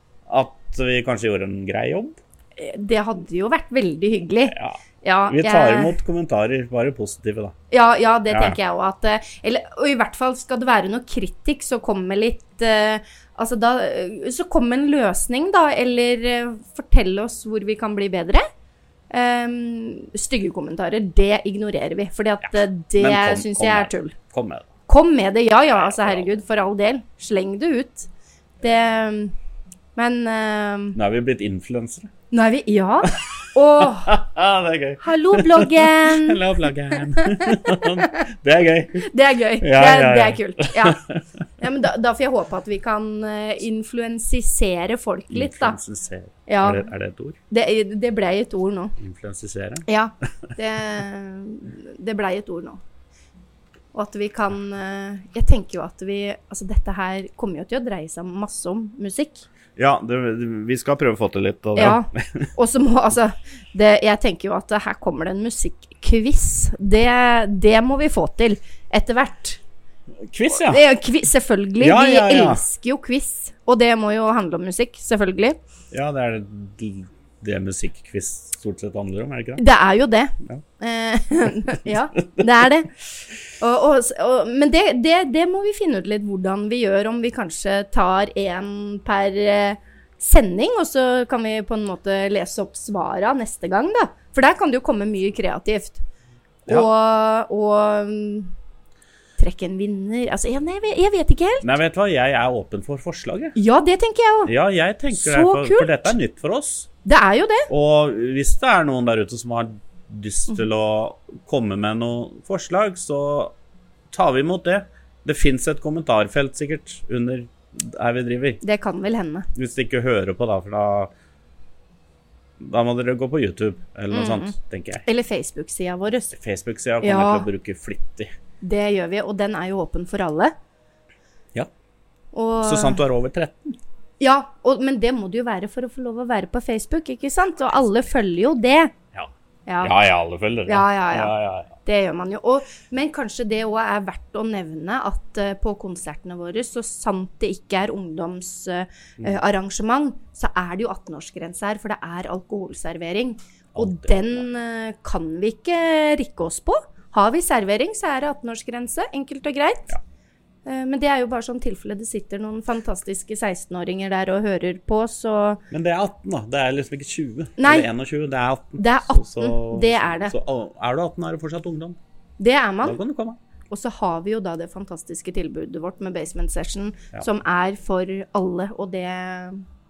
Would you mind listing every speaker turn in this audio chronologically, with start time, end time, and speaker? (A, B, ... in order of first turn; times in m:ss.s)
0:00.3-0:02.2 A
0:02.6-0:06.0 B
0:04.5-0:07.6 A
0:07.7-0:18.4 B
0:08.3-0:08.6 A
0:19.1-0:24.2 B
0:22.4-0:24.7 A
0:24.9-0:28.1 B
0:25.8-0:26.4 A
0:28.6-0:29.4 B
0:30.0-0:31.0 B
0:31.0-0:32.1 A
0:32.3-0:34.2 B
0:33.1-0:41.2 A
0:35.0-0:38.2 B
0:38.9-0:41.0 B
0:41.6-0:45.8 B
0:45.3-0:47.4 A
0:46.5-0:46.9 B
0:47.5-0:49.0 B
0:49.0-0:49.9 A
0:49.9-0:52.8 B
0:53.9-0:59.5 B
0:59.8-1:02.5 A
1:01.8-1:09.6 B
1:10.2-1:10.8 A
1:10.5-1:15.6 B
1:11.8-1:12.6 A
1:15.9-1:19.6 A
1:19.6-1:23.0 B
1:23.6-1:36.0 B
1:36.7-1:38.6 B
1:39.4-1:41.7 B
1:41.6-1:43.6 A
1:43.6-1:44.5 B
1:44.4-1:46.9 A
1:45.1-1:46.1 B
1:47.0-1:47.7 B
1:47.7-1:53.5 A
1:54.1-1:58.6 A
1:58.6-1:59.5 B
1:59.6-2:01.1 A
2:02.6-2:05.1 A
2:04.1-2:04.6 B
2:05.1-2:06.3 B
2:06.3-2:08.3 A
2:07.0-2:07.5 B
2:08.6-2:10.5 B
2:12.3-2:13.0 B
2:12.6-2:13.8 A
2:14.2-2:18.9 B
2:19.1-2:21.8 A
2:19.7-2:20.0 B
2:20.7-2:21.3 B
2:21.9-2:39.9 B
2:33.8-2:34.4 A
2:40.6-2:45.6 B
2:45.7-2:52.0 A
2:47.6-2:47.9 B
2:48.8-2:50.3 B
2:52.4-2:53.0 B
2:52.8-2:53.4 A
2:53.7-2:59.6 B